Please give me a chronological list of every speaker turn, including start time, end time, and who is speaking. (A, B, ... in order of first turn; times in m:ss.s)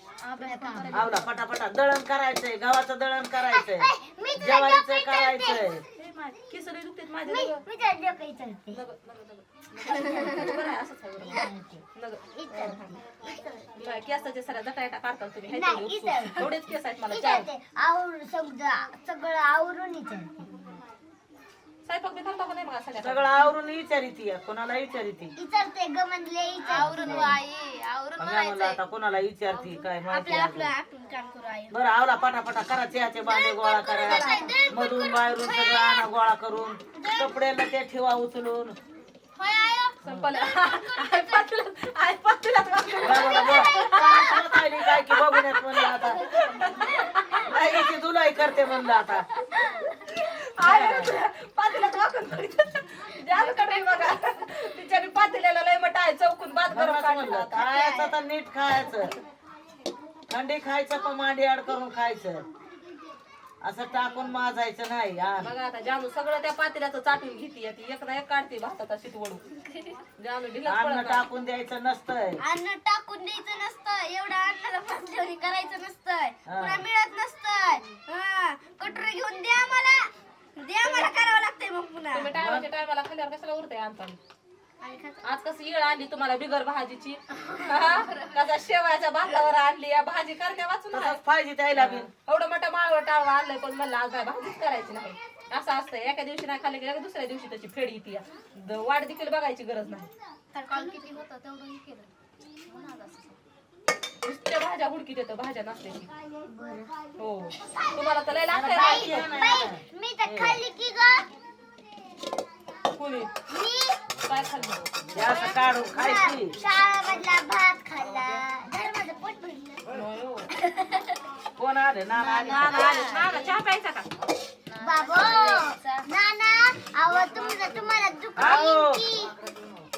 0:00.2-0:01.1 A
0:00.4-0:00.9 B
0:00.9-0:01.3 C
0:00.9-0:05.8 D
0:03.4-0:05.8 B
0:06.0-0:07.6 C
0:07.2-0:08.8 B
0:08.7-0:12.9 C
0:09.9-0:10.6 B
0:11.2-0:13.8 B
0:13.8-0:17.5 C
0:15.5-0:16.6 B
0:17.1-0:20.5 B
0:20.5-0:20.8 C
0:21.8-0:23.4 C
0:23.0-0:25.3 D
0:25.4-0:27.4 B
0:26.6-0:28.8 A
0:26.7-0:27.4 D
0:28.2-0:30.7 D
0:29.6-0:31.7 A
0:31.7-0:38.8 D
0:33.2-0:36.1 B
0:34.0-0:34.4 A
0:36.9-0:37.4 B
0:39.4-0:41.5 A
0:40.0-0:47.4 C
0:40.0-0:40.3 D
0:43.0-0:44.4 B
0:43.0-0:46.2 D
0:45.9-0:47.4 A
0:47.5-0:49.3 D
0:49.5-0:57.8 C
0:50.6-0:51.1 D
0:56.7-0:59.1 D
1:00.3-1:02.4 D
1:03.6-1:05.5 D
1:05.4-1:09.4 C
1:10.2-1:11.3 C
1:10.6-1:12.4 D
1:12.4-1:22.3 B
1:16.4-1:16.8 D
1:20.8-1:21.1 C
1:22.1-1:24.2 C
1:22.4-1:22.7 D
1:24.8-1:25.3 B
1:25.2-1:31.2 C
1:27.5-1:28.5 A
1:30.9-1:32.1 D
1:31.8-1:40.1 C
1:40.5-1:42.1 A
1:40.7-1:41.1 B
1:42.6-1:43.4 A
1:44.2-1:46.1 C
1:46.4-1:46.9 B
1:47.2-1:49.3 C
1:47.6-1:51.3 B
1:48.5-1:50.6 D
1:52.9-1:53.3 C
1:53.5-1:54.0 B
1:54.2-1:54.9 C
1:55.1-1:56.5 D
1:55.2-1:59.8 B
1:59.9-2:00.5 C
2:00.5-2:01.1 B
2:01.6-2:03.2 D
2:02.2-2:03.5 A
2:02.4-2:02.9 B
2:02.4-2:04.1 C
2:04.7-2:06.0 A
2:04.8-2:09.3 B
2:08.4-2:09.0 D